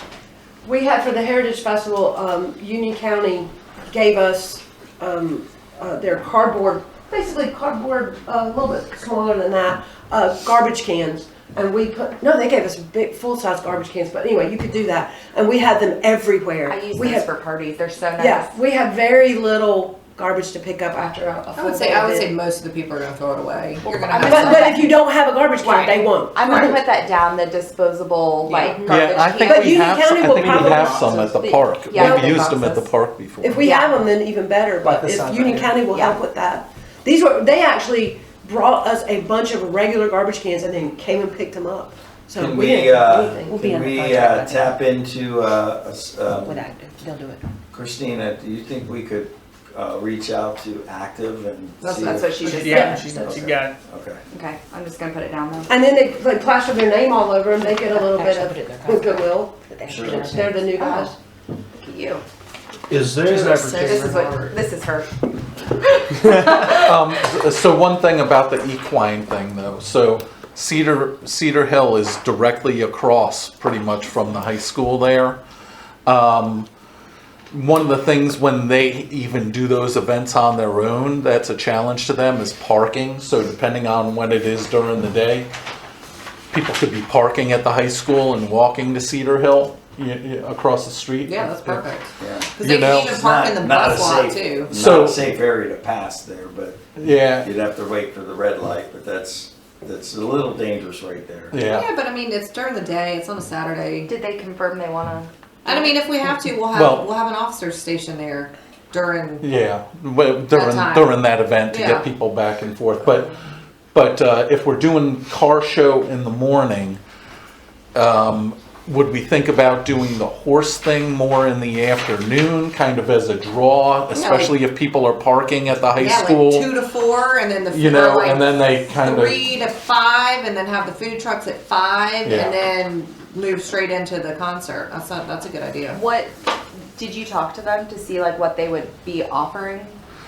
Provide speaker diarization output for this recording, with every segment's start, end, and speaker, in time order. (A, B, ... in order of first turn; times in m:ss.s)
0:00.6-0:17.3 A
0:16.7-0:18.5 B
0:18.2-0:21.6 A
0:21.5-0:24.9 C
0:21.6-0:22.3 B
0:23.9-0:24.8 B
0:24.2-0:26.8 A
0:25.6-0:26.0 C
0:26.3-0:29.7 B
0:28.4-0:28.8 C
0:28.7-0:31.3 A
0:28.9-0:33.6 D
0:30.4-0:31.0 E
0:31.1-0:32.8 B
0:31.9-0:32.6 A
0:33.4-0:43.6 A
0:33.6-0:33.9 B
0:34.9-0:35.8 F
0:35.9-0:36.2 B
0:42.4-0:46.6 G
0:43.5-0:44.7 F
0:46.4-0:47.5 F
0:47.7-0:52.4 G
0:51.8-0:53.0 C
0:52.0-0:53.1 B
0:52.4-0:53.8 E
0:52.7-0:53.0 A
0:53.2-0:54.2 G
0:54.3-0:55.7 B
0:55.7-0:59.6 A
0:57.7-1:00.8 F
0:59.9-1:00.5 G
1:00.2-1:01.2 A
1:00.8-1:01.1 B
1:01.7-1:02.2 B
1:02.9-1:04.0 E
1:03.2-1:04.6 C
1:03.7-1:05.1 B
1:06.3-1:06.6 B
1:06.5-1:15.4 D
1:16.1-1:16.7 D
1:17.5-1:25.5 D
1:26.5-1:31.8 D
1:31.3-1:34.7 C
1:32.2-1:36.8 G
1:32.6-1:33.1 D
1:34.7-1:35.2 D
1:37.0-1:37.5 D
1:37.4-1:41.6 G
1:41.5-1:41.9 D
1:41.6-1:44.1 C
1:44.1-1:45.9 B
1:45.6-1:49.5 C
1:46.7-1:47.1 D
1:49.4-1:53.3 D
1:50.5-1:51.2 C
1:51.7-1:52.1 C
1:53.9-1:57.0 D
1:58.0-2:06.7 D
2:04.1-2:04.5 C
2:06.0-2:16.0 C
2:07.7-2:09.4 D
2:12.2-2:12.6 D
2:15.9-2:20.0 B